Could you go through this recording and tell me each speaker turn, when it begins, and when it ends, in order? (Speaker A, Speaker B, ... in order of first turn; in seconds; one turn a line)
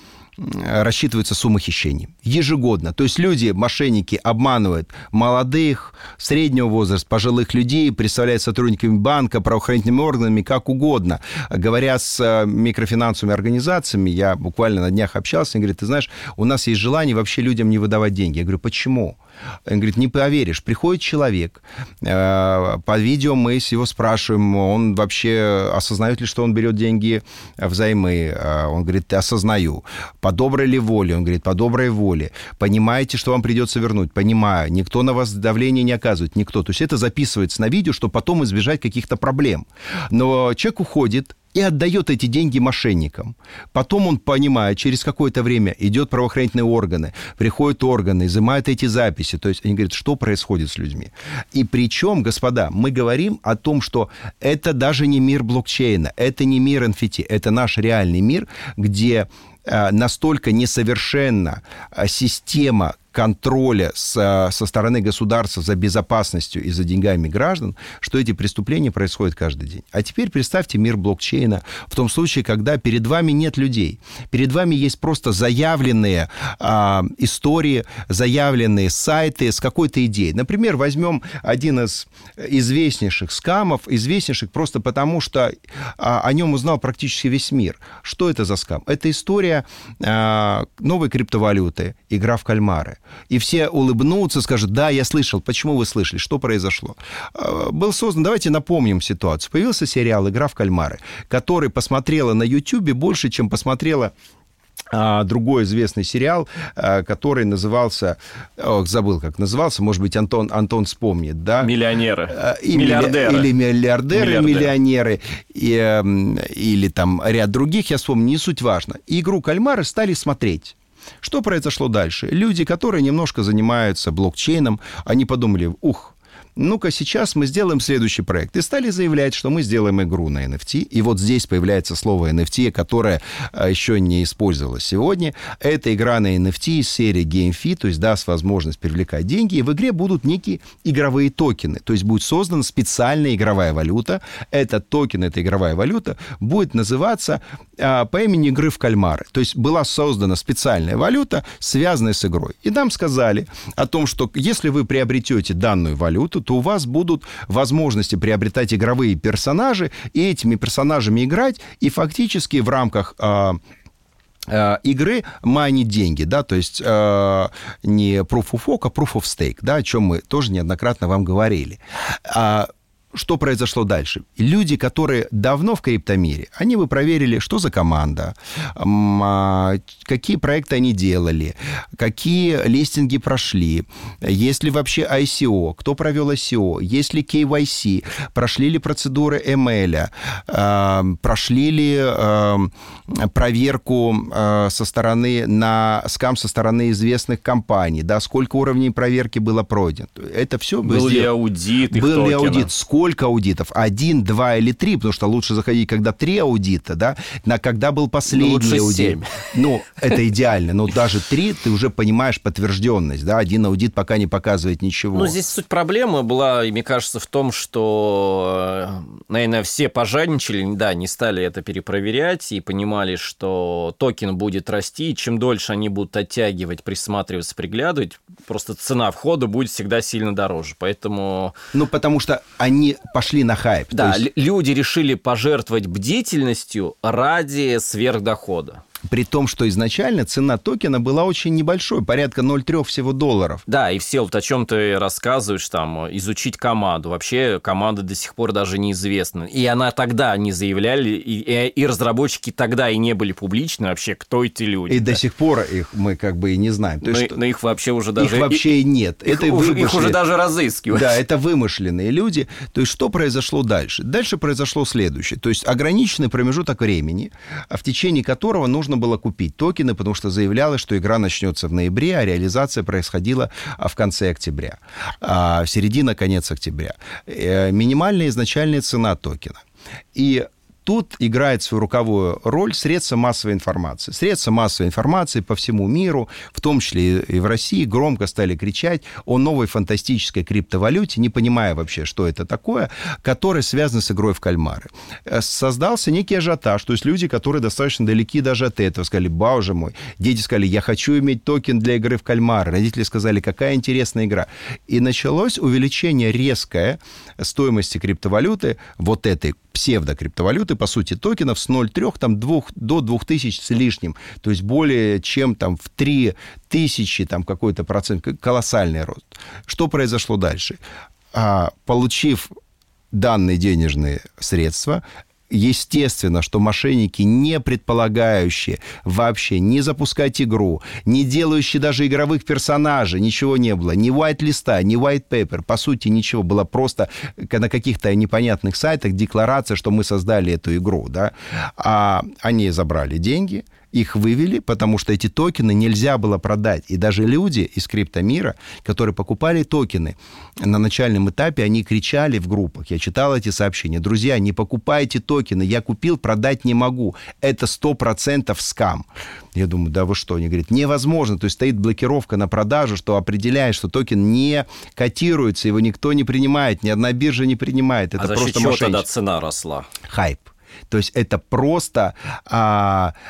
Speaker A: 0.4-104.1
Speaker A: 104.9-111.7
Speaker B: 111.6-113.5
Speaker A: 112.3-163.6
Speaker B: 114.1-114.7
Speaker A: 164.5-201.3
Speaker B: 200.8-202.7
Speaker A: 201.9-215.4
Speaker B: 208.2-209.5
Speaker B: 215.1-231.6
Speaker A: 231.7-234.2
Speaker B: 233.9-238.8
Speaker A: 239.1-243.6
Speaker B: 243.7-255.2
Speaker A: 254.9-257.4
Speaker B: 257.0-261.2
Speaker A: 258.2-260.2
Speaker A: 260.9-279.6
Speaker A: 280.1-320.8
Speaker A: 321.3-322.5
Speaker A: 323.1-369.1
Speaker B: 368.2-369.9
Speaker A: 370.0-373.1